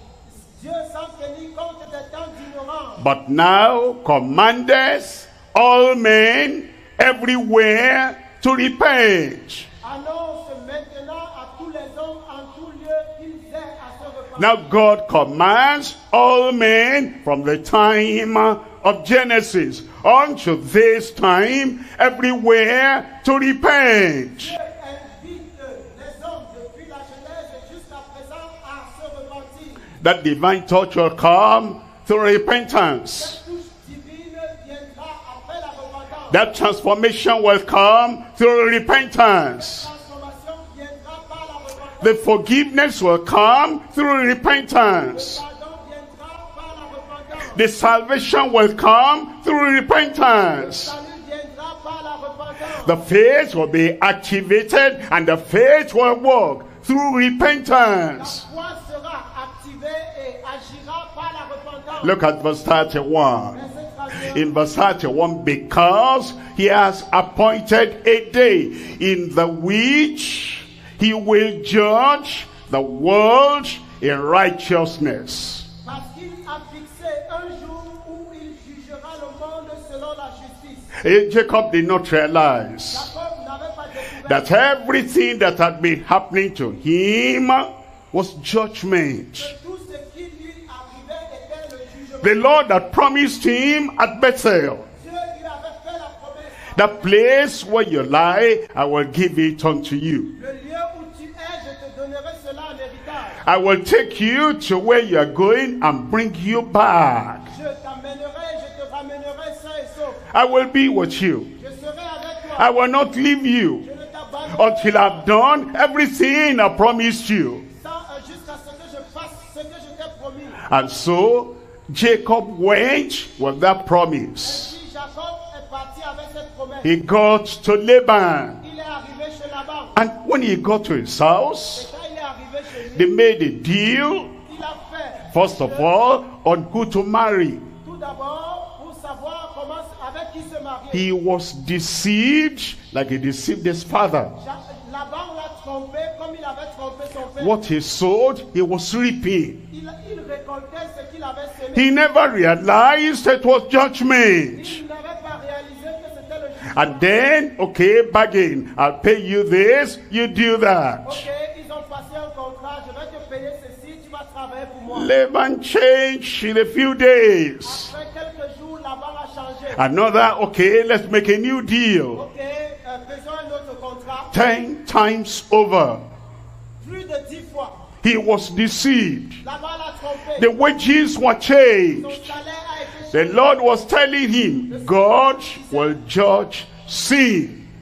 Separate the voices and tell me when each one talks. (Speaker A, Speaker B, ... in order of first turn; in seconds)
Speaker A: 0.3-3.0, 9.8-14.7, 24.4-29.9, 33.2-36.5, 39.5-42.2, 45.1-47.6, 50.5-53.0, 58.2-62.2, 63.5-64.5, 75.8-80.9, 82.9-84.7, 89.4-92.4, 95.0-97.0, 100.4-103.4, 107.5-110.3, 111.6-112.8, 113.8-115.3, 117.7-120.6, 124.4-126.9, 128.6-129.9, 131.8-133.1, 134.5-135.9, 137.8-141.1, 144.4-147.6, 149.7-151.9, 154.5-157.3, 161.1-165.1, 167.6-169.9, 172.2-174.5, 176.8-177.8, 179.4-180.5, 181.9-183.7, 184.7-186.0
Speaker B: 3.0-9.7, 14.4-24.6, 30.0-33.4, 36.3-39.9, 42.0-45.4, 47.5-51.0, 52.8-58.4, 62.0-63.6, 64.2-75.7, 81.0-83.1, 84.3-89.5, 92.2-94.9, 96.7-100.3, 103.4-107.5, 110.3-111.5, 112.6-113.9, 114.5-117.7, 120.7-124.7, 126.8-128.6, 129.9-131.9, 132.9-134.3, 135.3-137.6, 140.9-144.3, 147.4-149.6, 151.7-154.8, 156.7-161.2, 164.9-167.9, 169.7-172.2, 174.3-176.0, 178.0-179.4, 180.4-182.3, 183.1-187.7